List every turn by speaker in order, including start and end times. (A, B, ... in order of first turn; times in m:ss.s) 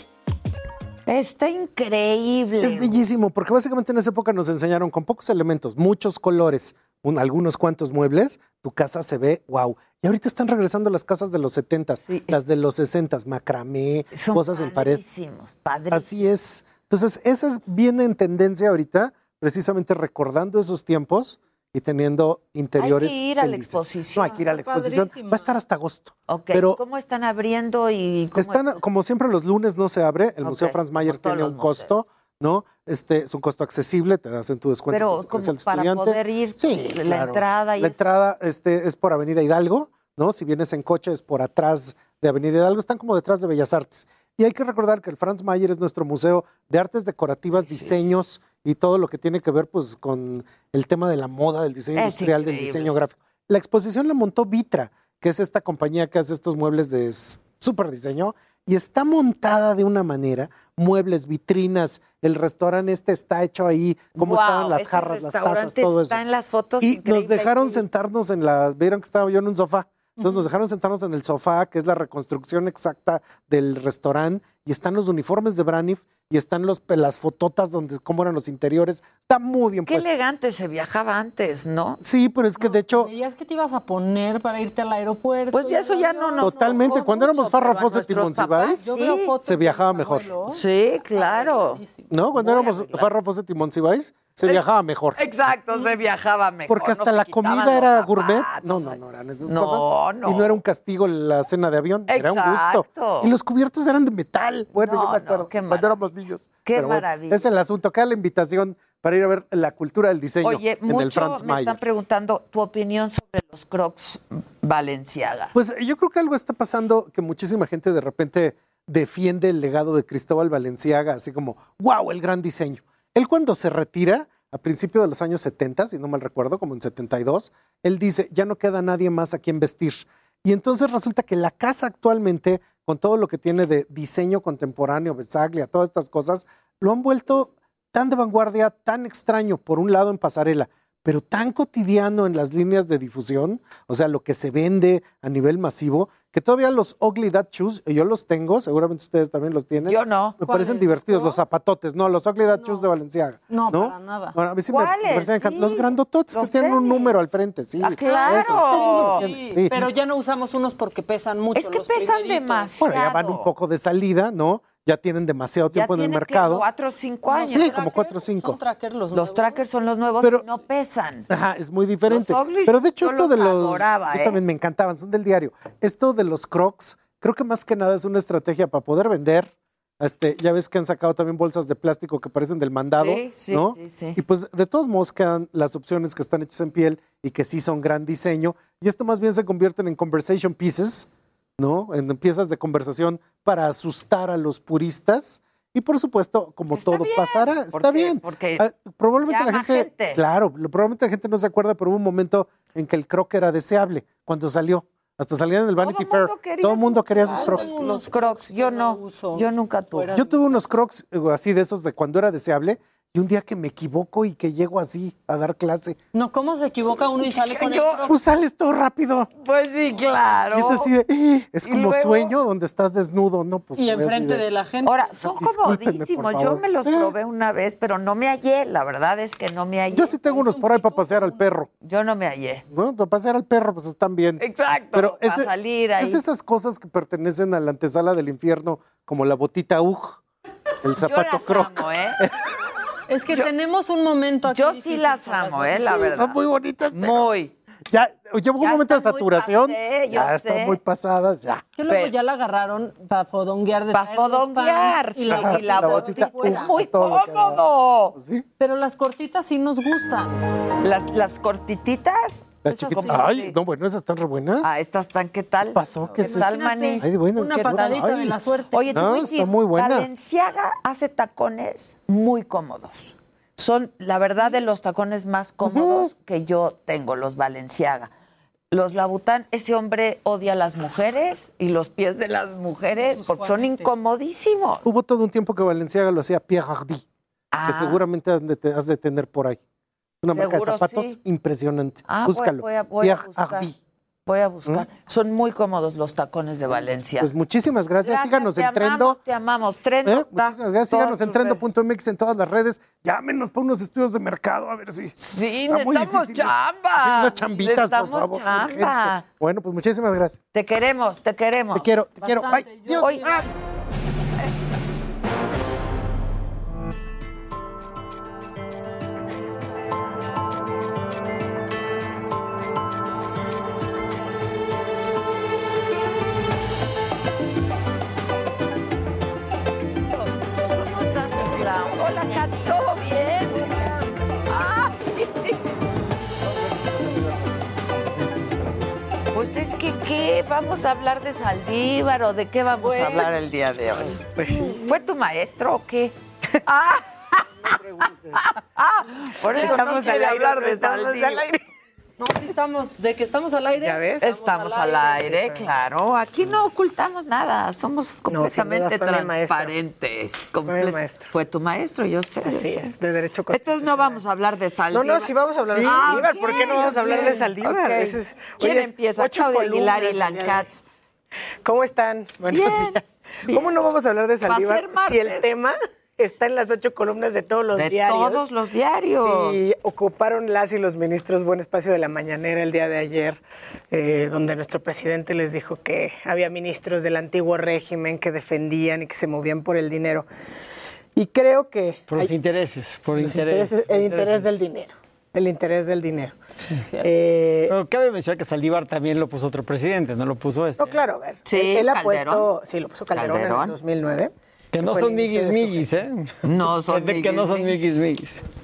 0:01.1-0:03.0 A
0:02.6-0:15.0 B
0:12.0-0:12.4 A
0:14.1-0:16.1 A
0:15.9-0:26.8 B
0:22.8-0:24.4 A
0:24.3-0:25.6 C
0:26.3-0:28.7 A
0:28.4-1:06.2 B
0:30.4-0:31.9 A
0:34.9-0:38.0 A
0:47.5-0:48.1 A
0:52.0-0:52.9 A
1:04.2-1:07.8 A
1:06.8-1:20.0 B
1:10.2-1:10.5 C
1:19.8-1:22.0 A
1:22.0-1:23.1 B
1:22.6-1:27.7 C
1:25.5-1:29.3 A
1:26.4-1:28.8 B
1:28.8-1:32.1 C
1:29.4-1:30.3 B
1:30.5-1:31.8 A
1:32.1-1:35.2 B
1:32.4-1:33.1 A
1:35.2-1:40.6 A
1:36.7-1:51.8 B
1:42.1-1:43.3 A
1:44.7-1:45.9 A
1:46.6-1:47.5 A
1:50.4-1:55.5 A
1:55.5-2:39.8 B
2:29.8-2:30.4 A
2:30.4-2:31.5 C
2:32.4-2:32.9 C
2:33.5-2:34.4 C
2:34.7-2:37.2 A
2:37.8-2:39.3 A
2:38.0-2:42.8 C
2:41.5-2:43.5 A
2:42.8-2:46.6 B
2:45.7-2:47.7 A
2:47.2-2:49.6 C
2:47.5-2:48.6 B
2:49.1-2:51.3 A
2:50.2-2:50.4 B
2:51.3-3:27.8 B
2:52.1-2:54.4 A
3:03.0-3:04.2 A
3:16.7-3:18.6 A
3:19.2-3:20.2 A
3:25.8-3:30.1 A
3:27.2-3:30.6 C
3:30.1-3:36.0 B
3:36.1-3:38.2 C
3:37.4-3:38.1 A
3:38.1-3:39.3 B
3:39.4-3:40.9 A
3:40.5-3:44.4 B
3:41.6-3:42.3 A
3:43.8-3:45.2 C
3:44.8-3:50.2 A
3:45.2-3:47.1 B
3:49.9-3:51.7 B
3:50.0-3:51.5 C
3:51.8-3:52.6 A
3:52.7-4:00.2 B
3:54.4-3:56.2 A
4:00.8-4:02.3 B
4:01.0-4:02.2 A
4:03.1-4:06.4 C
4:04.5-4:06.4 A
4:05.7-4:07.3 B
4:06.9-4:07.5 A
4:07.9-4:11.6 B
4:08.6-4:10.8 A
4:11.8-4:16.8 C
4:11.9-4:12.1 A
4:13.9-4:18.2 A
4:15.2-4:18.4 B
4:18.6-4:20.4 C
4:20.8-4:23.6 A
4:22.6-4:23.4 C
4:22.6-4:24.7 B
4:24.6-4:38.1 A
4:25.7-4:28.4 B
4:26.1-4:29.2 C
4:28.9-4:30.1 B
4:35.6-4:36.1 B
4:38.7-4:44.8 A
4:42.9-4:43.9 C
4:44.8-4:47.0 B
4:47.5-4:48.0 A
4:47.6-4:49.6 B
4:50.2-4:53.7 B
4:50.3-4:51.2 A
4:52.0-4:53.7 A
4:54.2-4:57.3 A
4:57.2-4:59.2 B
4:58.0-5:01.7 A
5:00.0-5:05.2 B
5:05.2-5:09.2 A
5:05.7-5:10.4 B
5:10.5-5:11.9 A
5:11.7-5:13.1 B
5:12.1-5:13.5 C
5:13.0-5:13.5 A
5:30.1-5:35.6 A
5:36.5-5:38.9 B
5:39.3-5:47.4 A
5:42.8-5:43.2 C
5:44.4-5:44.7 D
5:44.4-5:44.8 E
5:48.3-5:51.4 A
5:49.4-5:51.6 D
5:52.2-5:55.3 C
5:53.8-5:54.3 D
5:54.2-6:02.9 A
5:55.2-5:55.7 D
5:58.3-5:59.7 D
6:00.6-6:01.3 D
6:02.4-6:04.2 D
6:03.5-6:10.8 A
6:04.9-6:10.6 D
6:05.7-6:07.2 E
6:11.6-6:18.4 D
6:12.5-6:13.7 A
6:14.4-6:15.5 A
6:17.7-6:19.6 A
6:19.1-6:30.3 D
6:31.2-6:32.3 D
6:32.1-6:34.5 E
6:33.1-6:36.4 D
6:37.0-6:37.7 D
6:37.7-6:41.0 E
6:40.8-6:45.9 D
6:41.4-6:42.5 A
6:43.1-6:43.8 A
6:44.7-6:46.3 E
6:46.4-6:47.9 A
6:46.9-6:48.4 E